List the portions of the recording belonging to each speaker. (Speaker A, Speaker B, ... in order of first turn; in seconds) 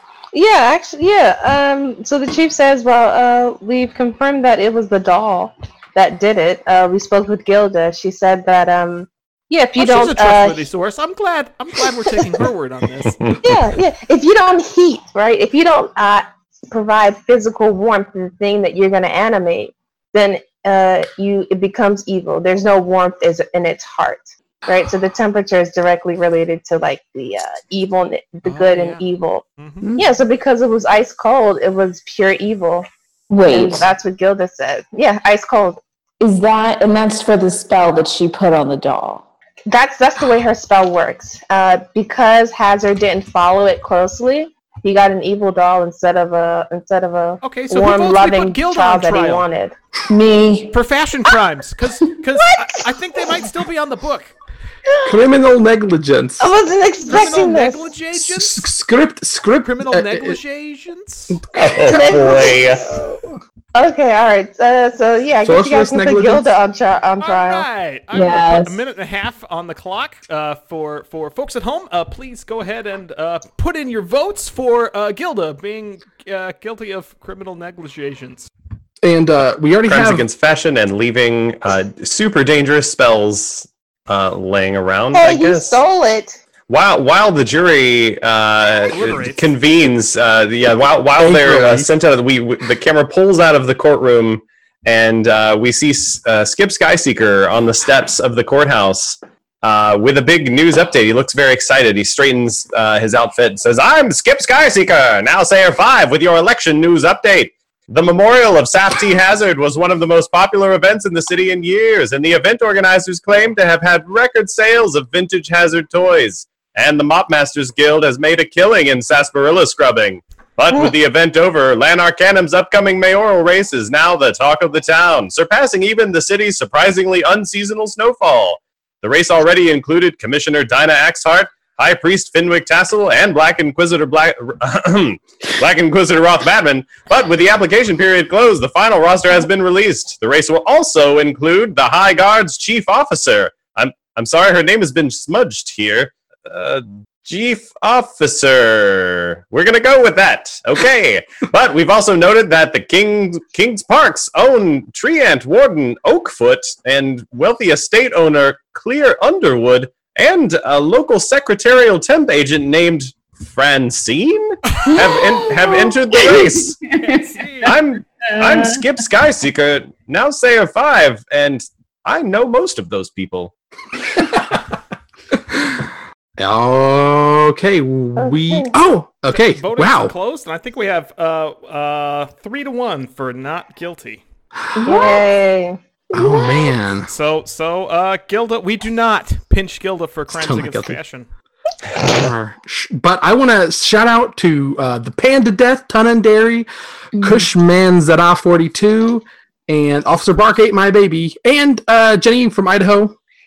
Speaker A: 0.3-10.6, 13.4-29.4, 29.9-32.9, 33.5-35.8, 39.7-49.7, 56.4-57.9, 61.8-62.6, 63.7-67.7, 85.1-86.4, 178.2-178.7, 184.8-186.5
Speaker B: 9.8-13.2, 28.4-29.0, 29.6-29.9, 47.4-49.5, 50.7-54.4, 57.1-58.7, 59.6-61.4, 67.2-78.5, 88.9-89.5, 167.0-167.8, 179.3-184.2, 187.1-191.3
Speaker C: 13.2-13.5, 61.5-62.9, 79.9-85.8, 86.7-166.8, 167.6-173.5
Speaker D: 33.3-33.9, 36.2-39.2, 50.1-50.8, 68.1-68.8, 164.9-168.8, 184.9-185.2, 197.2-197.4
Speaker E: 55.0-56.5, 58.1-60.4, 61.3-62.5, 65.4-66.5, 79.0-80.2, 91.2-91.9, 175.5-175.9, 176.4-180.1, 186.1-187.1, 190.3-191.0, 191.9-203.2